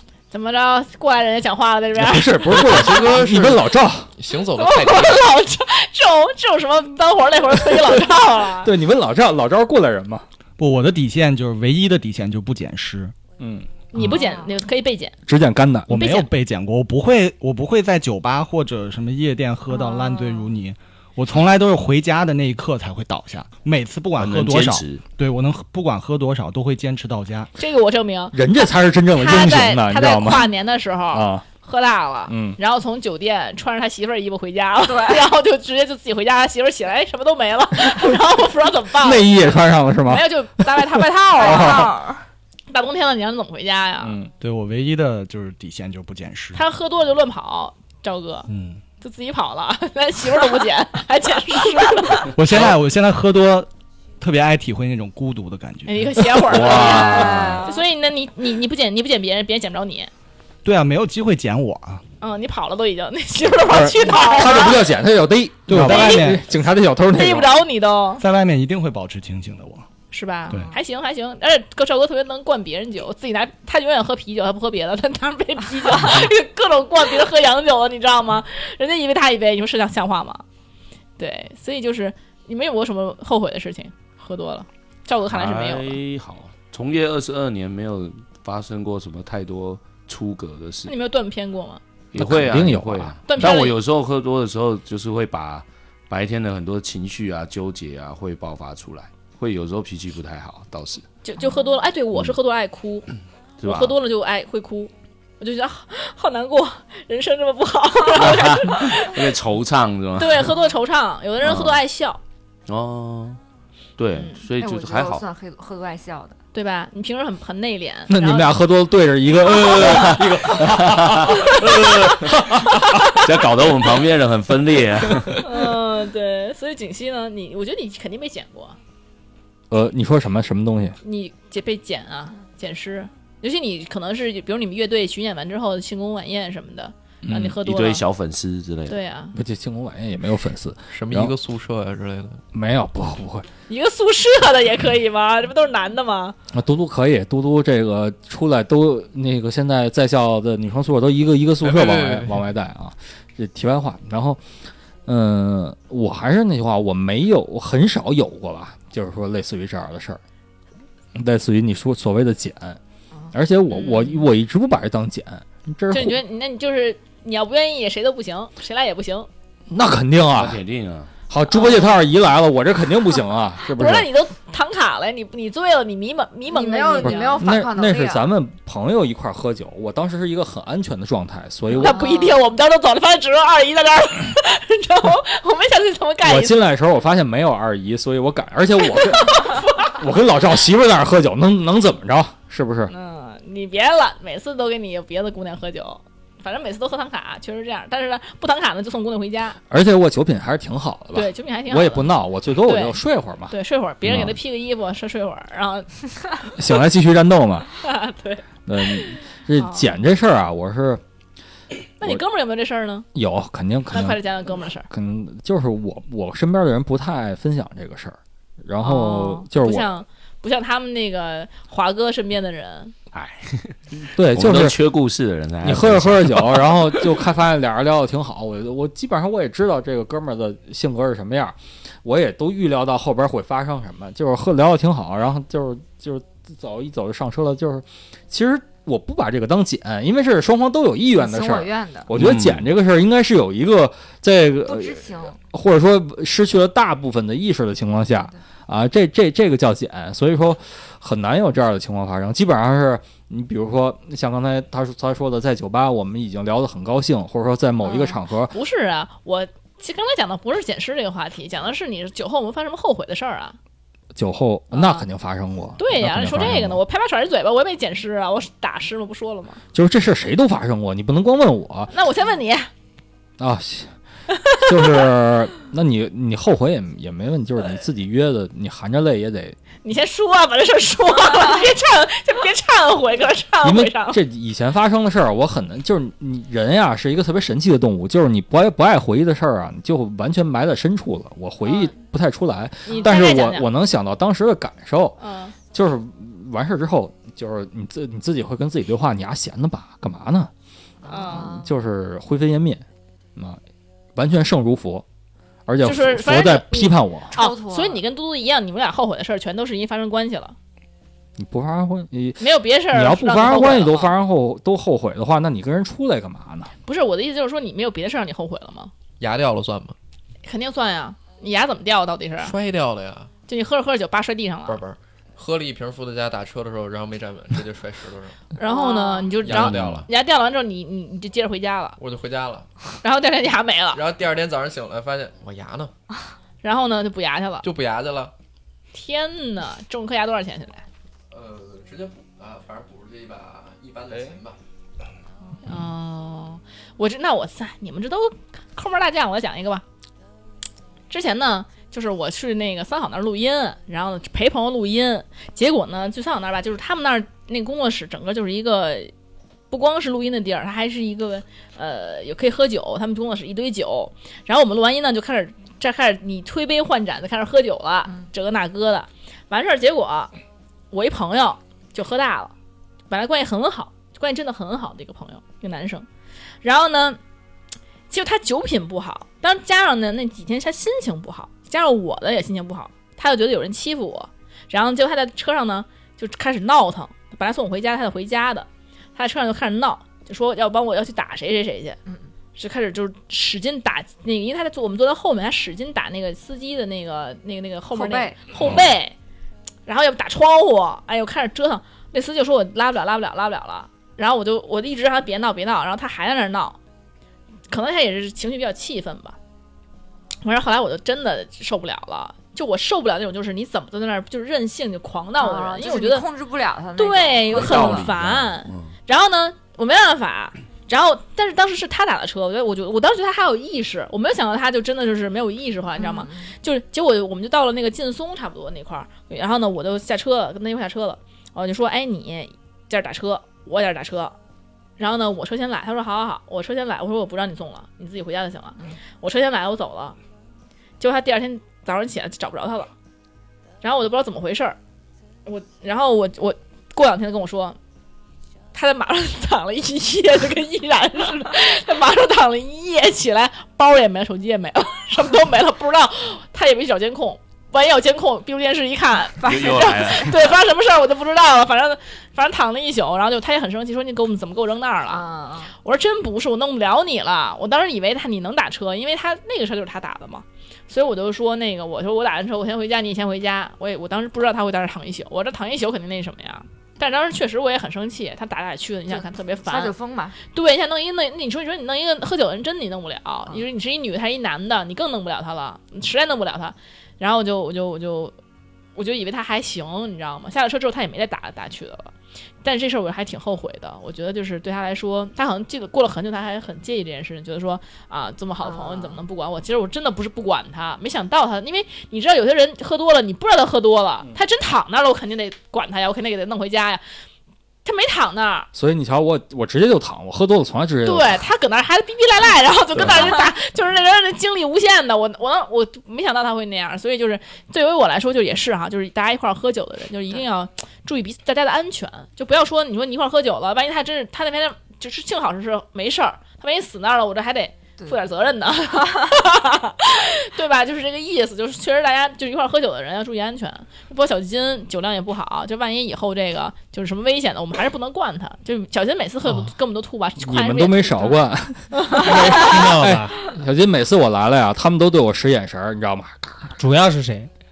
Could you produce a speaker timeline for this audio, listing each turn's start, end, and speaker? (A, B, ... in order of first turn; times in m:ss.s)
0:00.3-0:02.9 A
0:01.9-0:04.1 B
0:02.5-0:05.3 C
0:04.6-0:08.7 A
0:08.6-0:10.2 B
0:10.6-0:13.1 D
0:13.4-0:13.7 B
0:13.9-0:15.2 A
0:14.0-0:14.5 E
0:15.3-0:16.0 B
0:15.9-0:27.5 D
0:15.9-0:16.3 A
0:19.7-0:20.5 E
0:24.2-0:25.0 F
0:27.6-0:39.3 A
0:28.3-0:30.5 B
0:31.1-0:31.4 B
0:32.3-0:32.6 B
0:34.8-0:35.3 E
0:39.0-0:41.9 B
0:40.0-0:42.0 A
0:41.3-0:42.2 E
0:42.7-0:44.2 A
0:44.0-0:44.3 B
0:44.4-0:46.6 D
0:46.5-0:48.5 A
0:48.5-0:48.8 D
0:49.0-0:52.3 A
0:52.3-0:56.6 D
0:55.8-1:00.1 A
0:56.5-0:57.6 F
0:56.6-0:57.8 E
1:00.6-1:02.0 D
1:02.2-1:04.8 A
1:03.7-1:07.6 B
1:04.4-1:04.7 E
1:05.7-1:06.4 D
1:05.7-1:06.5 A
1:07.0-1:08.2 A
1:08.2-1:09.8 D
1:10.1-1:20.4 A
1:21.2-1:26.0 A
1:25.3-1:30.9 F
1:30.9-1:31.8 A
1:32.1-1:41.0 F
1:32.1-1:33.2 B
1:33.3-1:33.8 A
1:41.2-1:43.1 A
1:43.6-1:44.0 F
1:43.6-1:49.3 A
1:48.1-1:50.5 F
1:50.2-1:52.2 A
1:51.4-1:51.8 F
1:52.7-1:53.4 F
1:54.0-1:55.2 F
1:54.6-1:56.4 E
1:56.5-1:58.5 A
1:58.1-2:03.0 B
1:59.4-2:02.5 F
2:03.1-2:05.4 F
2:05.4-2:08.8 A
2:09.7-2:11.0 B
2:11.0-2:18.0 A
2:17.2-2:17.6 B
2:17.6-2:19.0 F
2:18.9-2:19.4 A
2:19.3-2:21.3 B
2:20.9-2:22.4 C
2:22.5-2:23.4 B
2:23.7-2:26.3 A
2:26.5-2:34.4 B
2:31.6-2:32.4 C
2:35.0-2:40.2 B
2:41.1-2:42.8 B
2:43.3-2:46.2 B
2:43.7-2:44.2 A
2:45.9-2:49.3 A
2:49.7-2:50.6 B
2:50.3-2:51.1 F
2:51.3-2:54.1 B
2:51.5-2:51.8 A
2:53.8-2:57.4 A
2:56.5-2:58.3 E
2:57.0-3:02.0 B
3:01.7-3:02.4 E
3:01.7-3:06.6 A
3:06.2-3:12.9 B
3:09.2-3:09.6 A
3:12.9-3:19.6 A
3:19.7-3:24.4 B
3:21.1-3:25.9 A
3:26.5-3:27.7 B
3:27.8-3:29.9 A
3:28.6-3:31.0 B
3:32.0-3:33.1 A
3:33.1-3:34.2 B
3:33.9-3:34.9 A
3:34.9-3:39.9 B
3:38.8-3:42.9 A
3:43.1-3:47.1 F
3:44.1-3:44.8 B
3:45.6-4:18.5 B
4:01.1-4:02.1 E
4:02.1-4:02.7 F
4:04.6-4:05.4 E
4:17.8-4:23.6 A
4:24.1-4:26.8 B
4:24.7-4:25.0 A
4:25.8-4:29.6 A
4:29.7-4:31.9 B
4:31.9-4:32.7 A
4:33.4-4:33.9 B
4:34.6-4:39.6 B
4:39.8-4:44.2 A
4:43.6-4:55.2 B
4:51.6-4:51.9 A
4:52.8-4:53.7 A
4:55.2-4:55.5 A
4:55.7-5:00.5 B
5:01.0-5:01.7 E
5:01.1-5:01.5 A
5:01.2-5:02.8 B
5:04.2-5:05.0 B
5:05.7-5:07.3 B
5:05.8-5:10.6 A
5:07.3-5:08.0 E
5:11.4-5:16.7 B
5:12.4-5:14.1 A
5:16.8-5:18.9 A
5:19.2-5:19.9 C
5:20.4-5:22.5 A
5:22.4-5:23.3 C
5:23.5-5:24.8 A
5:24.6-5:28.5 C
5:28.5-5:32.0 A
5:28.6-5:29.4 E
5:29.4-5:30.1 C
5:32.0-5:32.7 C
5:33.0-5:34.0 A
5:33.9-5:35.9 C
5:36.6-5:37.7 A
5:37.6-5:38.3 C
5:38.9-5:40.8 A
5:41.3-5:44.6 C
5:45.6-5:49.8 A
5:51.1-5:59.1 A
5:59.7-6:10.3 A
6:10.9-6:12.5 A
6:13.1-6:16.0 A
6:16.6-6:17.2 A
6:18.1-6:32.0 A
6:32.6-6:39.1 A
6:37.9-6:38.4 E
6:39.8-6:46.8 A
6:47.7-6:49.4 A
6:50.4-6:56.3 A
6:55.4-6:58.1 E
6:57.0-7:14.3 A
6:57.5-6:58.9 F
7:06.0-7:06.5 E
7:15.0-7:20.2 A
7:21.0-7:22.9 A
7:23.8-7:24.8 A
7:25.4-7:27.8 A
7:28.7-7:45.2 A
7:39.4-7:39.9 E
7:39.4-7:40.3 F
7:45.1-7:45.7 E
7:45.8-8:08.3 A
7:59.1-8:00.4 E
8:09.0-8:12.1 A
8:12.6-8:27.0 A
8:18.6-8:19.2 E
8:27.8-8:28.7 A
8:28.7-8:31.4 B
8:31.0-9:01.4 A
8:32.9-8:33.4 B
9:00.4-9:06.7 B
9:01.9-9:02.7 A
9:02.2-9:03.4 G
9:06.8-9:07.5 G